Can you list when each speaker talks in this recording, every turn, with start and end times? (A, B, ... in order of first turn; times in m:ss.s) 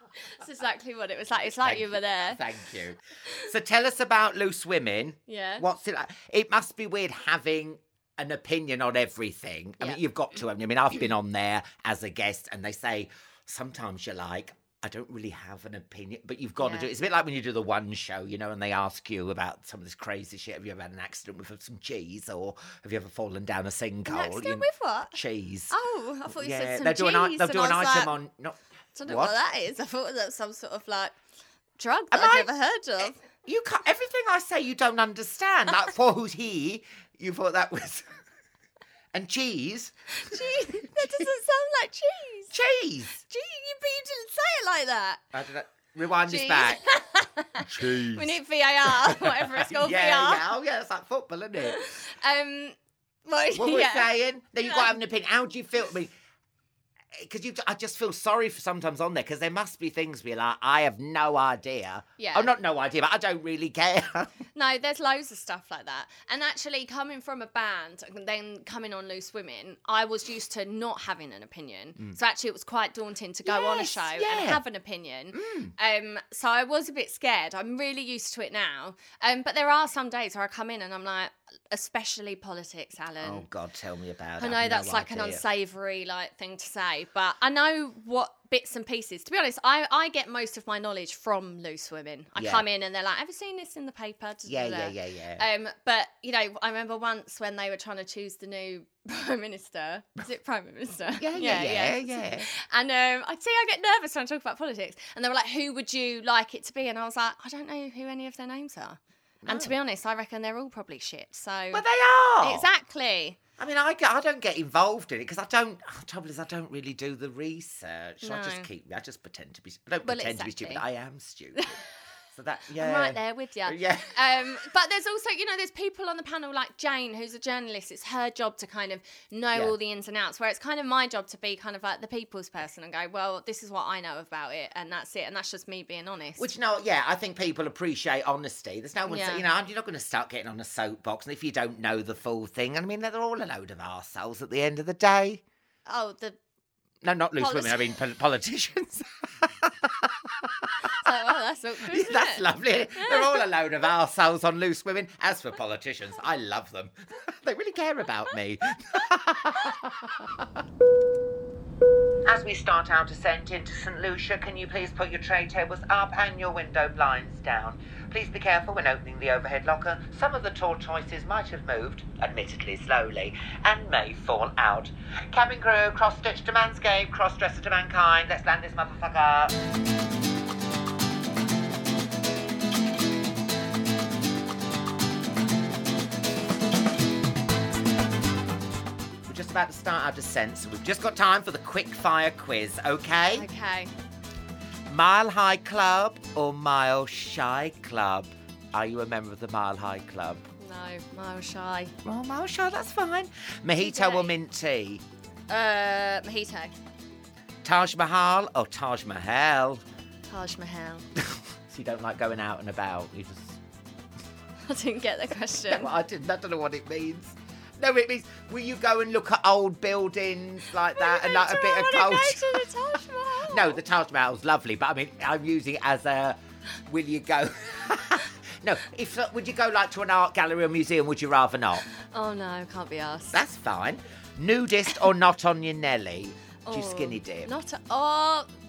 0:00.4-0:02.4 A
0:01.4-0:25.7 B
0:05.3-0:05.6 A
0:16.6-0:16.9 A
0:24.1-0:25.2 A
0:25.7-0:28.2 A
0:26.3-0:29.3 B
0:29.0-0:31.1 A
0:31.8-0:33.2 A
0:32.1-0:38.1 B
0:39.1-0:41.0 B
0:40.1-0:42.5 A
0:42.5-0:43.2 B
0:43.3-0:45.2 A
0:45.3-0:46.8 B
0:46.3-0:50.4 A
0:47.6-0:51.8 B
0:51.6-0:54.1 A
0:53.5-0:56.1 B
0:54.6-0:54.9 A
0:57.1-1:04.3 B
1:02.2-1:02.5 A
1:04.5-1:23.4 A
1:13.4-1:14.6 B
1:15.3-1:15.7 B
1:23.2-1:25.4 B
1:24.4-1:51.8 A
1:32.4-1:32.6 B
1:34.4-1:35.5 B
1:41.2-1:42.5 B
1:49.4-1:49.7 B
1:51.7-1:52.7 B
1:52.4-1:53.4 A
1:53.6-2:01.7 B
1:58.2-1:58.7 A
2:00.0-2:00.8 A
2:02.3-2:04.5 B
2:02.8-2:16.5 A
2:16.4-2:25.4 B
2:19.1-2:19.5 A
2:25.9-2:26.4 A
2:27.0-2:31.1 B
2:27.4-2:27.9 A
2:31.0-2:33.4 A
2:31.9-2:40.6 B
2:42.2-2:59.6 B
3:09.2-3:13.5 B
3:13.3-3:13.9 A
3:14.9-3:20.5 B
3:20.6-3:21.9 A
3:22.0-3:25.0 B
3:23.8-3:24.3 A
3:25.5-3:26.7 A
3:27.6-3:29.8 B
3:30.3-3:31.0 A
3:31.2-3:33.6 B
3:34.7-3:35.9 A
3:35.7-3:42.6 B
3:40.9-3:43.8 A
3:43.5-3:51.9 B
3:52.1-3:53.4 A
3:53.3-3:57.5 B
3:56.6-3:58.5 A